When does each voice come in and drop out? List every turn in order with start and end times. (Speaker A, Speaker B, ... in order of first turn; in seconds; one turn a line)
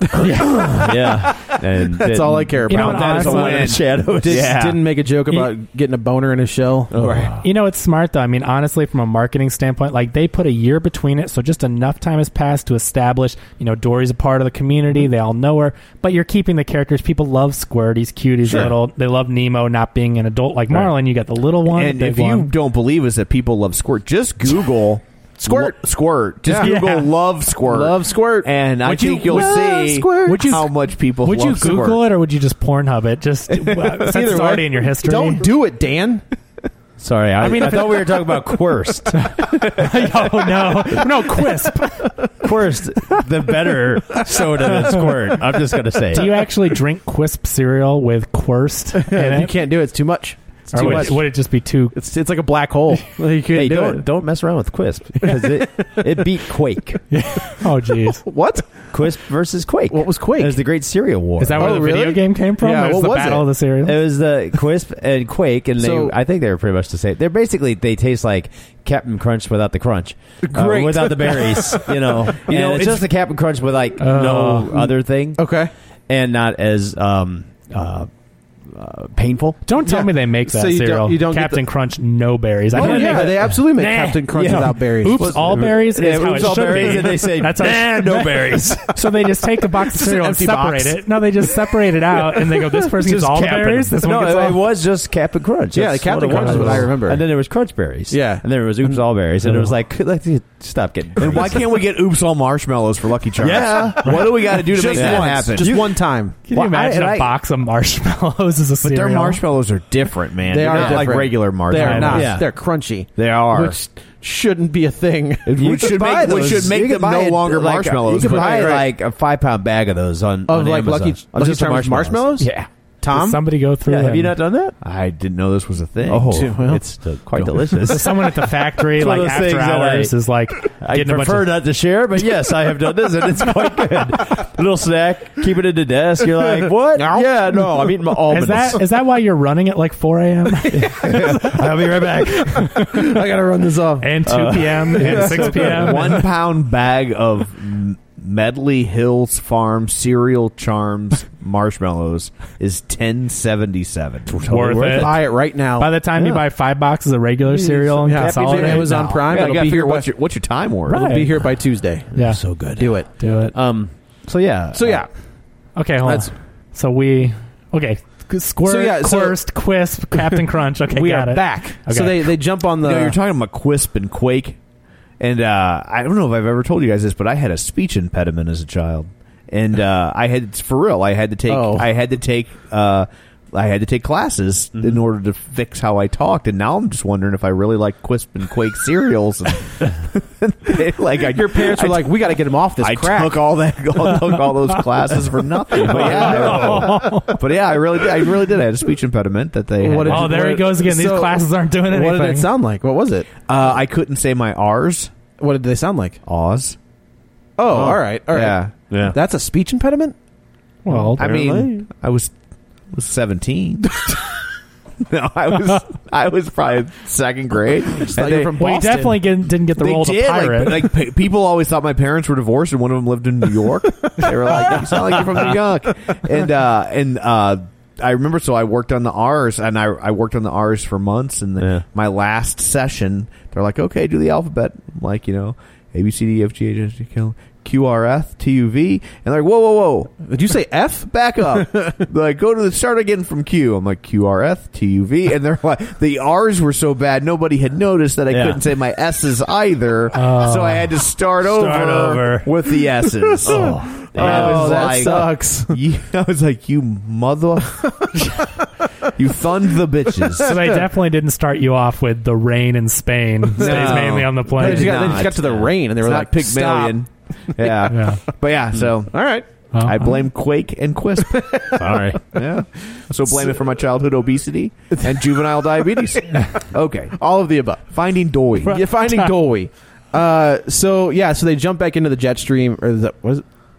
Speaker A: 0.2-4.6
Speaker B: 0.2-7.2
Speaker C: 2.7-3.6
Speaker D: 2.7-4.8
Speaker A: 6.9-7.4
Speaker C: 7.4-22.5
Speaker D: 21.6-32.0
Speaker B: 25.4-25.8
Speaker B: 26.4-26.8
Speaker C: 26.6-27.1
Speaker B: 27.6-30.6
Speaker C: 30.2-35.5
Speaker D: 33.5-34.0
Speaker B: 34.0-36.2
Speaker A: 37.0-40.0
Speaker C: 37.4-38.3
Speaker C: 39.1-42.1
Speaker A: 42.4-46.4
Speaker C: 46.1-49.5
Speaker B: 49.0-51.3
Speaker C: 50.7-51.9
Speaker A: 50.8-51.1
Speaker B: 51.9-54.1
Speaker A: 53.5-57.0
Speaker B: 55.2-55.9
Speaker C: 57.1-58.2
Speaker B: 58.2-58.9
Speaker A: 58.9-61.9
Speaker B: 59.9-60.6
Speaker C: 61.4-64.0
Speaker B: 61.6-63.5
Speaker A: 63.8-75.4
Speaker B: 65.8-66.1
Speaker B: 70.4-73.0
Speaker C: 74.0-74.7
Speaker B: 75.4-75.7
Speaker A: 76.1-78.1
Speaker A: 78.7-79.6
Speaker C: 79.7-94.6
Speaker B: 79.8-81.6
Speaker B: 82.7-85.6
Speaker A: 82.7-83.6
Speaker A: 84.3-89.1
Speaker D: 86.3-86.9
Speaker B: 89.9-91.0
Speaker B: 92.5-94.5
Speaker A: 93.3-101.7
Speaker B: 95.7-97.2
Speaker C: 96.3-96.8
Speaker B: 98.1-99.0
Speaker D: 101.2-105.8
Speaker A: 103.4-107.3
Speaker B: 103.8-106.3
Speaker C: 106.5-109.4
Speaker D: 108.8-112.4
Speaker B: 110.5-116.7
Speaker A: 110.7-111.3
Speaker C: 111.8-112.2
Speaker A: 112.1-112.5
Speaker D: 113.2-113.8
Speaker D: 115.5-118.8
Speaker A: 115.6-122.7
Speaker B: 118.1-118.8
Speaker B: 120.5-122.5
Speaker B: 123.0-123.4
Speaker C: 123.1-124.3
Speaker A: 123.8-124.8
Speaker D: 124.8-126.5
Speaker A: 126.1-130.1
Speaker B: 126.3-127.9
Speaker C: 127.9-131.5
Speaker A: 130.8-138.8
Speaker B: 136.3-138.6
Speaker C: 138.3-141.5
Speaker A: 140.7-142.9
Speaker C: 142.6-142.9
Speaker B: 142.8-144.1
Speaker C: 144.0-146.1
Speaker A: 144.2-146.1
Speaker B: 145.0-145.9
Speaker D: 145.1-154.4
Speaker A: 154.3-155.3
Speaker C: 154.5-159.1
Speaker B: 154.9-155.9
Speaker A: 156.2-156.4
Speaker A: 157.4-159.2
Speaker B: 158.0-160.1
Speaker D: 159.3-161.1
Speaker C: 160.9-161.3
Speaker B: 160.9-162.1
Speaker A: 162.1-165.0
Speaker C: 162.2-162.6
Speaker B: 162.7-163.1
Speaker C: 163.1-163.5
Speaker B: 164.7-165.1
Speaker C: 165.8-172.2
Speaker B: 166.0-166.3
Speaker B: 168.6-169.4
Speaker B: 170.9-173.2
Speaker D: 172.8-174.6
Speaker D: 175.2-192.1
Speaker B: 181.5-181.9
Speaker B: 191.3-193.5
Speaker D: 192.8-200.3
Speaker B: 195.9-196.8
Speaker C: 196.0-197.3
Speaker B: 199.8-203.5
Speaker C: 200.1-202.5
Speaker D: 203.4-205.1
Speaker B: 205.4-206.2
Speaker D: 206.2-206.8
Speaker B: 207.6-210.1
Speaker D: 207.7-208.7
Speaker A: 208.9-209.2
Speaker C: 210.8-211.2
Speaker D: 211.1-212.3
Speaker B: 211.2-211.7
Speaker D: 212.9-214.4
Speaker D: 215.0-218.5
Speaker B: 217.9-219.2
Speaker C: 218.6-220.9
Speaker D: 219.8-240.2
Speaker B: 224.6-225.1
Speaker A: 224.6-225.2
Speaker A: 231.6-231.8
Speaker B: 240.2-242.0
Speaker D: 241.1-258.0
Speaker A: 248.3-248.6
Speaker C: 250.1-250.9
Speaker C: 251.4-252.5
Speaker A: 253.4-255.2
Speaker B: 253.4-255.8
Speaker B: 257.7-258.5
Speaker D: 259.1-260.6
Speaker C: 260.4-265.0
Speaker D: 263.6-269.3
Speaker B: 263.6-267.0
Speaker A: 263.8-264.3
Speaker A: 265.3-265.7
Speaker C: 267.9-268.2
Speaker B: 269.1-269.4
Speaker C: 269.7-270.1
Speaker D: 269.8-271.8
Speaker B: 271.2-272.0
Speaker A: 271.8-272.2
Speaker D: 272.3-277.2
Speaker B: 274.9-275.4
Speaker B: 277.2-277.9
Speaker D: 277.9-278.9
Speaker C: 278.6-279.3
Speaker B: 278.7-283.5